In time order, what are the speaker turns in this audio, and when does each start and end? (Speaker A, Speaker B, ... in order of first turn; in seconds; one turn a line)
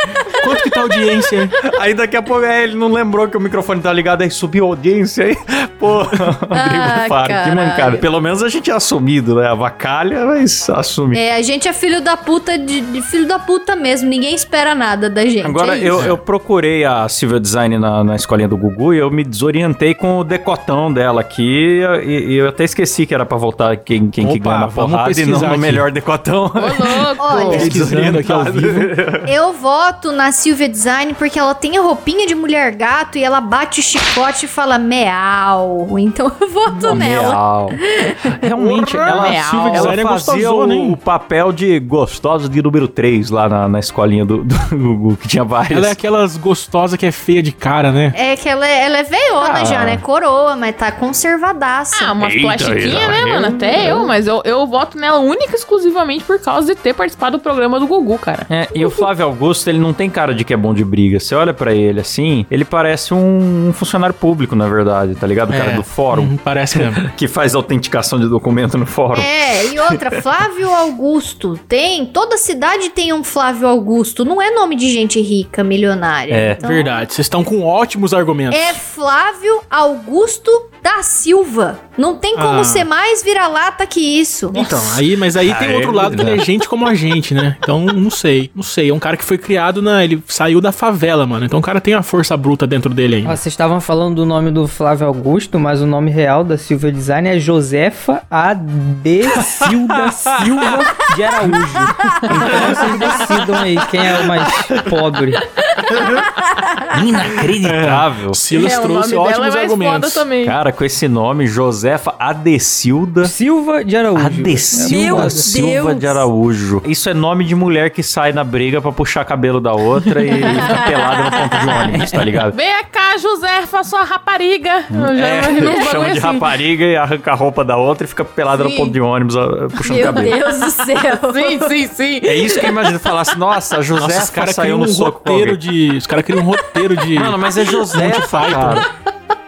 Speaker A: 0.3-1.6
Speaker B: 1.6-11.2
Speaker C: 6.5-8.1
Speaker C: 11.1-16.1
Speaker B: 15.4-29.3
Speaker A: 15.9-16.2
Speaker A: 24.2-25.9
Speaker D: 26.6-27.7
Speaker C: 27.2-27.7
Speaker A: 27.3-28.9
Speaker C: 29.2-38.4
Speaker B: 36.7-46.0
Speaker A: 38.6-41.0
Speaker D: 39.0-40.0
Speaker A: 45.7-48.1
Speaker C: 48.1-52.2
Speaker B: 49.4-50.0
Speaker D: 51.9-59.1
Speaker B: 52.2-54.1
Speaker B: 58.5-69.3
Speaker A: 65.5-67.0
Speaker C: 69.1-77.0
Speaker B: 76.3-76.6
Speaker A: 76.6-78.8
Speaker C: 78.5-84.9
Speaker A: 82.3-82.9
Speaker A: 84.5-93.4
Speaker B: 85.4-86.5
Speaker E: 93.2-105.5
Speaker B: 99.3-101.0
Speaker A: 102.3-103.4
Speaker B: 104.6-104.9
Speaker B: 105.9-106.3
Speaker C: 106.0-106.9
Speaker B: 106.9-108.5
Speaker A: 107.6-110.3
Speaker D: 108.5-110.6
Speaker B: 110.4-113.3
Speaker E: 113.2-115.7
Speaker B: 114.2-122.5
Speaker C: 114.9-116.3
Speaker D: 120.3-120.7
Speaker C: 120.3-121.9
Speaker D: 122.5-126.5
Speaker B: 124.9-130.4
Speaker D: 128.5-128.9
Speaker C: 129.8-131.7
Speaker D: 131.0-133.0
Speaker B: 132.2-135.6
Speaker A: 134.0-138.9
Speaker B: 137.1-138.9